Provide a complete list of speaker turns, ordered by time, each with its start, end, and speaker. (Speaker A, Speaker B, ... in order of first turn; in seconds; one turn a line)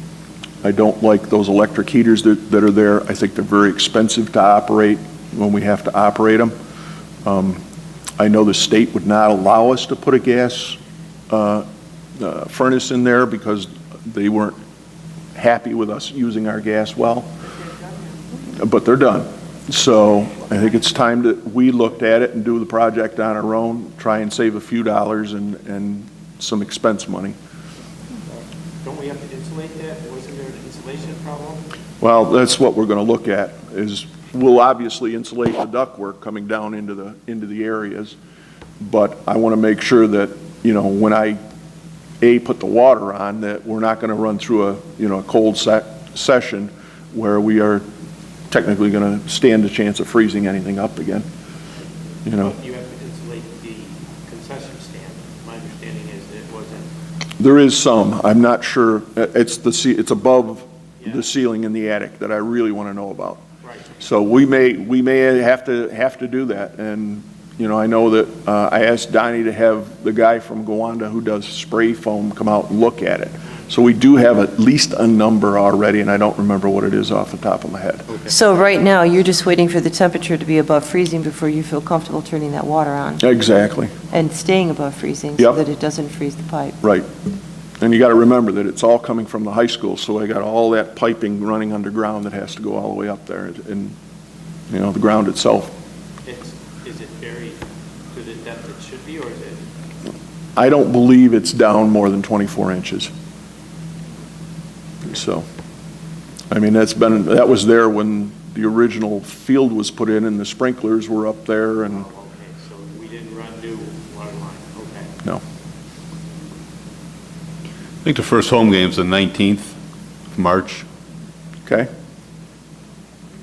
Speaker A: 0.6-6.5
Speaker A: 7.2-7.6
Speaker A: 8.2-10.8
Speaker A: 11.3-11.7
Speaker A: 12.2-14.6
Speaker A: 15.3-17.3
Speaker A: 18.4-27.4
Speaker B: 28.8-31.6
Speaker A: 32.0-38.2
Speaker A: 38.8-41.4
Speaker A: 42.2-47.9
Speaker A: 48.5-51.2
Speaker A: 52.2-52.5
Speaker B: 52.4-56.9
Speaker A: 57.4-63.4
Speaker B: 61.0-61.3
Speaker B: 63.6-64.0
Speaker A: 64.0-78.1
Speaker B: 78.1-78.3
Speaker C: 78.2-83.2
Speaker A: 83.2-84.0
Speaker C: 84.1-86.8
Speaker A: 86.8-87.1
Speaker A: 87.8-94.0
Speaker A: 94.7-95.7
Speaker B: 96.2-99.6
Speaker A: 100.5-103.1
Speaker A: 105.0-105.5
Speaker A: 106.5-112.0
Speaker B: 111.9-115.1
Speaker D: 118.0-119.7
Speaker D: 120.3-120.8